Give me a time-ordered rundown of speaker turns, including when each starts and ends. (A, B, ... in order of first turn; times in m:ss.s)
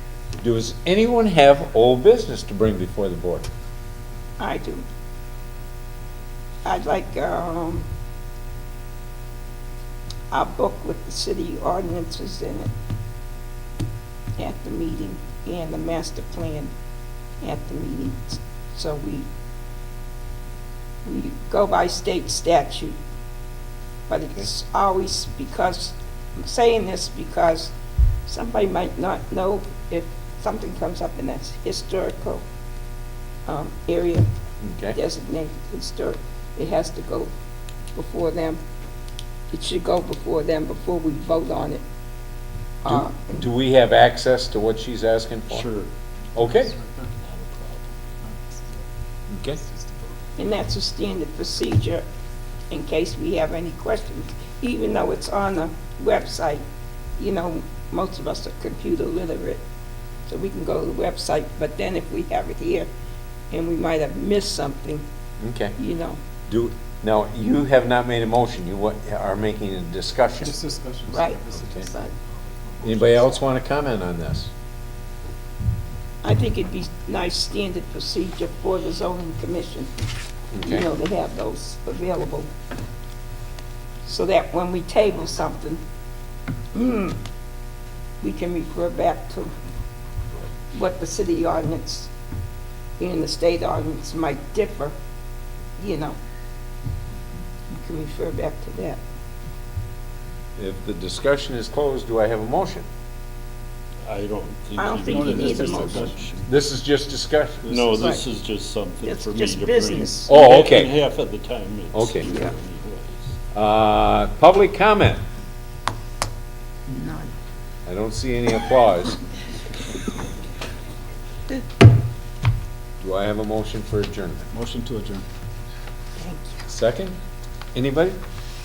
0:00.4-0:03.5 A
0:04.4-0:04.8 B
0:06.6-0:07.9 B
0:10.3-0:12.7 B
0:14.4-0:16.7 B
0:17.4-0:19.3 B
0:21.0-0:23.0 B
0:24.1-0:27.7 B
0:28.3-0:32.4 B
0:33.5-0:34.3 B
0:34.6-0:35.0 A
0:34.9-0:37.3 B
0:37.9-0:38.6 B
0:39.5-0:41.8 B
0:42.8-0:43.4 B
0:42.8-0:45.7 A
0:45.5-0:45.9 C
0:46.4-0:46.7 A
0:46.4-0:47.1 D
0:47.2-0:47.9 C
0:49.3-0:49.6 A
0:50.4-0:52.0 B
0:52.7-0:56.6 B
0:57.2-0:59.6 B
1:00.3-1:02.9 B
1:03.5-1:05.0 B
1:05.4-1:05.8 A
1:05.8-1:06.2 B
1:06.5-1:10.6 A
1:10.4-1:13.3 D
1:11.1-1:12.1 B
1:11.5-1:11.9 A
1:12.8-1:14.5 A
1:16.2-1:19.9 B
1:20.5-1:20.8 A
1:20.6-1:22.5 B
1:24.1-1:25.8 B
1:26.7-1:27.2 B
1:28.2-1:29.5 B
1:30.7-1:32.1 B
1:33.0-1:35.0 B
1:35.8-1:36.2 B
1:37.7-1:39.0 B
1:40.6-1:42.9 A
1:44.0-1:46.5 C
1:44.8-1:46.1 B
1:45.0-1:46.3 D
1:46.5-1:47.7 A
1:47.7-1:53.3 C
1:47.9-1:48.2 B
1:49.0-1:50.3 B
1:50.3-1:50.9 A
1:51.9-1:52.3 A
1:52.2-1:52.6 B
1:53.5-1:55.2 A
1:56.9-1:57.3 B
1:57.9-1:59.2 A
2:03.0-2:04.5 A
2:04.5-2:05.2 D
2:06.2-2:06.7 B
2:06.7-2:07.2 A
2:07.8-2:08.2 A